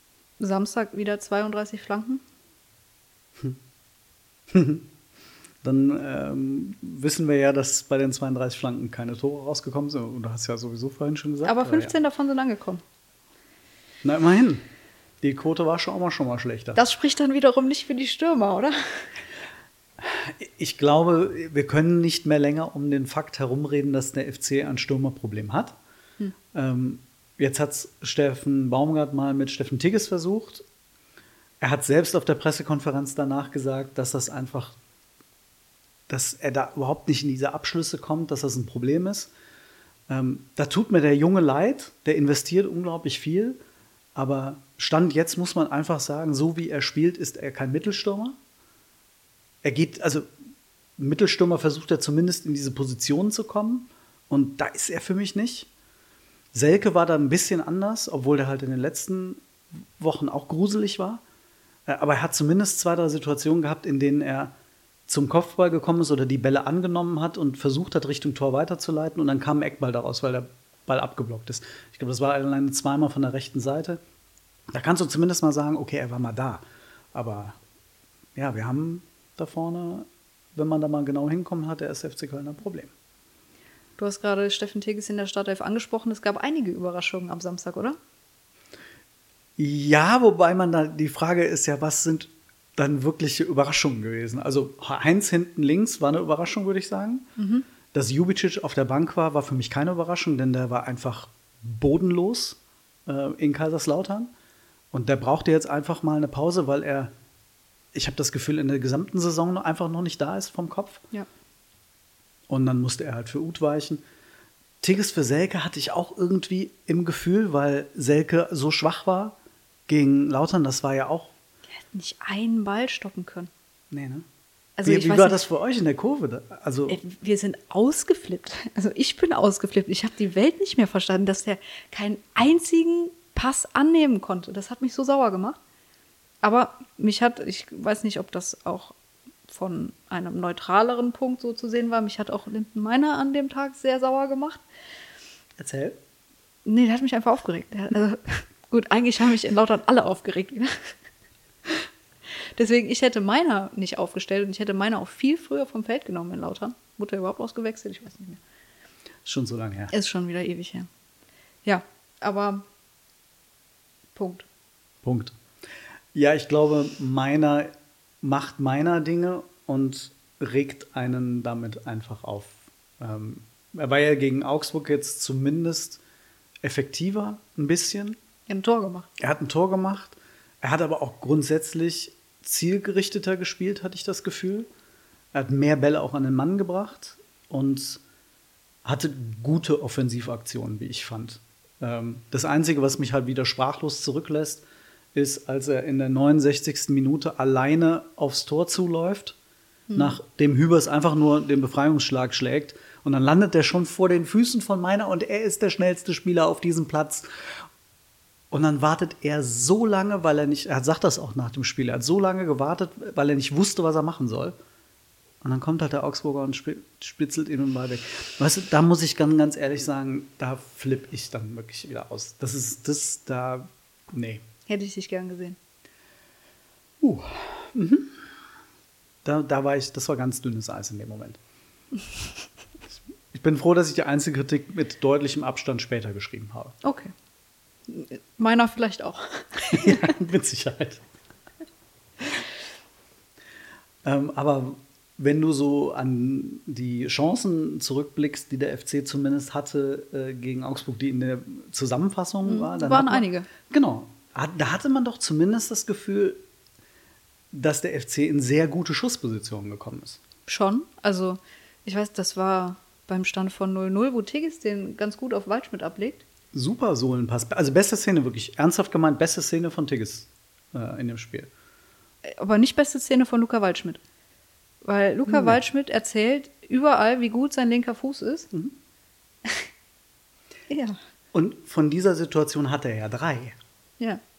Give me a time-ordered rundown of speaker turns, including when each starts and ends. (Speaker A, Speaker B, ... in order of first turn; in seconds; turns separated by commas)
Speaker A: 0.4-2.2, Speaker B: 4.5-4.9, Speaker B: 5.6-11.9, Speaker A: 11.4-12.8, Speaker B: 14.0-14.7, Speaker B: 15.2-16.8, Speaker A: 16.7-19.1, Speaker B: 20.0-25.8, Speaker B: 26.5-30.6, Speaker B: 31.6-34.8, Speaker B: 36.1-39.3, Speaker B: 40.1-43.6, Speaker B: 44.1-48.4, Speaker B: 49.6-50.3, Speaker B: 51.0-55.7, Speaker B: 56.5-59.4, Speaker B: 60.0-61.2, Speaker B: 61.9-64.5, Speaker B: 65.1-74.0, Speaker B: 74.7-77.6, Speaker B: 78.3-82.9, Speaker A: 84.0-88.0, Speaker B: 89.6-97.3, Speaker A: 97.4-97.7, Speaker B: 97.9-104.3, Speaker B: 104.9-107.1, Speaker B: 107.9-111.0, Speaker B: 112.5-114.0, Speaker B: 114.8-119.4, Speaker B: 119.9-121.3, Speaker A: 121.9-123.5, Speaker B: 123.9-124.2, Speaker A: 124.8-125.4, Speaker B: 124.8-127.0, Speaker A: 126.9-135.6, Speaker A: 136.4-138.9, Speaker A: 139.5-144.6, Speaker B: 145.6-146.0, Speaker A: 146.6-150.9, Speaker A: 152.6-158.4, Speaker B: 159.2-159.9, Speaker A: 159.9-160.9, Speaker A: 161.6-162.6, Speaker A: 164.1-164.4, Speaker B: 165.0-165.4, Speaker B: 166.1-176.0, Speaker B: 176.6-178.2, Speaker A: 178.5-179.1, Speaker B: 179.2-184.7, Speaker B: 185.3-188.0, Speaker B: 188.8-199.4, Speaker A: 199.9-200.2, Speaker B: 199.9-207.3, Speaker B: 208.5-214.6, Speaker B: 215.4-224.4, Speaker A: 224.7-225.6, Speaker B: 227.0-228.2, Speaker B: 229.2-231.4, Speaker B: 233.3-236.8, Speaker A: 236.8-237.1, Speaker A: 237.9-240.1, Speaker B: 239.7-241.0, Speaker B: 244.0-256.4, Speaker A: 252.4-253.5, Speaker B: 257.5-260.2, Speaker A: 260.4-266.2, Speaker B: 266.5-271.5, Speaker A: 272.2-274.0, Speaker A: 274.8-278.5, Speaker B: 275.3-275.6, Speaker A: 280.7-281.0, Speaker B: 281.3-283.6